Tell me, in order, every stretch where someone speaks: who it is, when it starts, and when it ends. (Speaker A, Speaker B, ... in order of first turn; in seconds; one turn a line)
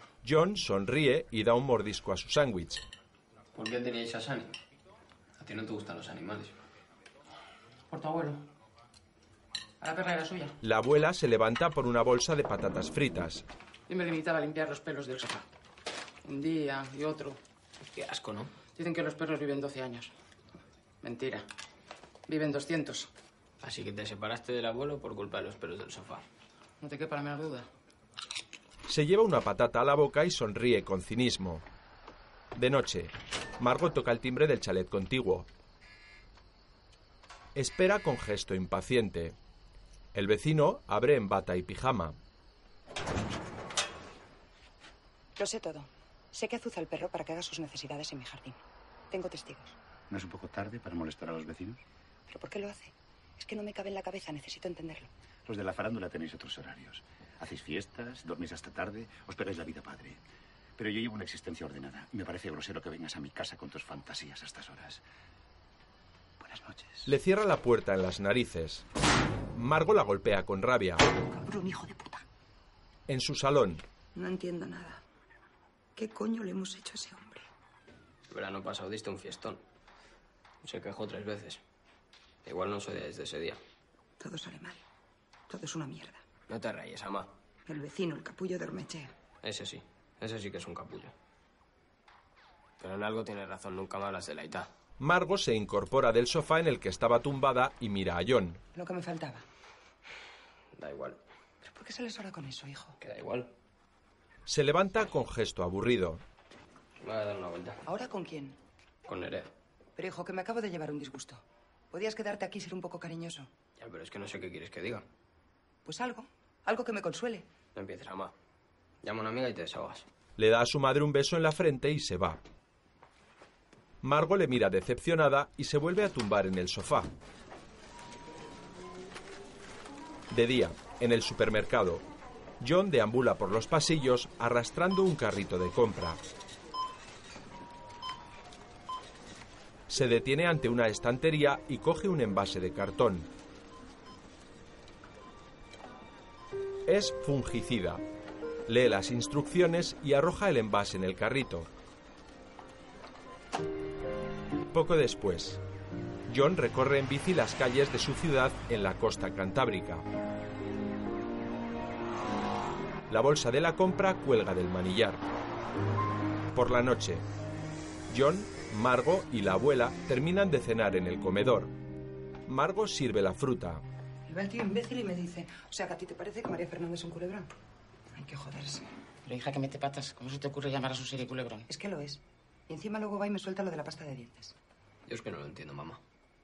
Speaker A: 0.2-2.8
Speaker B: 3.5-4.5
Speaker B: 5.4-6.5
Speaker C: 7.9-8.4
Speaker C: 9.8-10.6
Speaker A: 10.6-13.4
Speaker C: 13.9-15.5
Speaker C: 16.2-17.4
Speaker B: 17.9-18.5
Speaker C: 18.8-20.1
Speaker C: 21.0-21.5
Speaker C: 22.3-23.1
Speaker B: 23.6-26.2
Speaker C: 26.8-27.7
Speaker A: 28.9-31.6
Speaker A: 32.6-35.5
Speaker A: 37.5-39.4
Speaker A: 40.1-42.2
Speaker D: 45.4-49.8
Speaker E: 50.1-51.8
Speaker D: 52.3-55.1
Speaker E: 55.5-60.2
Speaker E: 60.8-65.0
Speaker E: 66.4-67.1
Speaker A: 67.1-68.9
Speaker A: 69.5-71.0
Speaker D: 71.3-72.2
Speaker A: 73.1-73.8
Speaker D: 74.2-75.0
Speaker D: 76.0-77.5
Speaker B: 78.3-79.6
Speaker B: 80.6-81.6
Speaker B: 82.5-83.6
Speaker D: 84.2-84.8
Speaker D: 85.5-86.2
Speaker B: 86.5-87.3
Speaker D: 87.7-89.1
Speaker B: 89.4-91.1
Speaker B: 92.8-94.7
Speaker A: 95.0-98.6
Speaker D: 98.8-99.4
Speaker B: 100.8-101.2
Speaker D: 101.6-103.0
Speaker B: 103.0-103.5
Speaker A: 104.5-106.2
Speaker B: 107.0-107.8
Speaker D: 107.9-108.6
Speaker B: 109.1-109.5
Speaker D: 110.0-113.5
Speaker B: 113.8-115.1
Speaker D: 115.8-117.5
Speaker B: 117.8-118.3
Speaker B: 119.0-120.1
Speaker A: 120.4-122.4
Speaker A: 124.0-127.1
Speaker A: 130.3-132.1
Speaker A: 132.6-136.2
Speaker A: 139.9-143.3
Speaker A: 146.9-148.0
Speaker A: 148.7-151.7
Speaker A: 154.7-155.6
Speaker A: 156.3-160.1
Speaker A: 163.1-165.2
Speaker A: 166.6-167.2
Speaker A: 168.1-171.7
Speaker A: 172.5-173.8
Speaker D: 174.3-177.5
Speaker D: 178.1-178.9
Speaker C: 179.3-181.7
Speaker D: 181.7-184.5
Speaker B: 185.1-186.0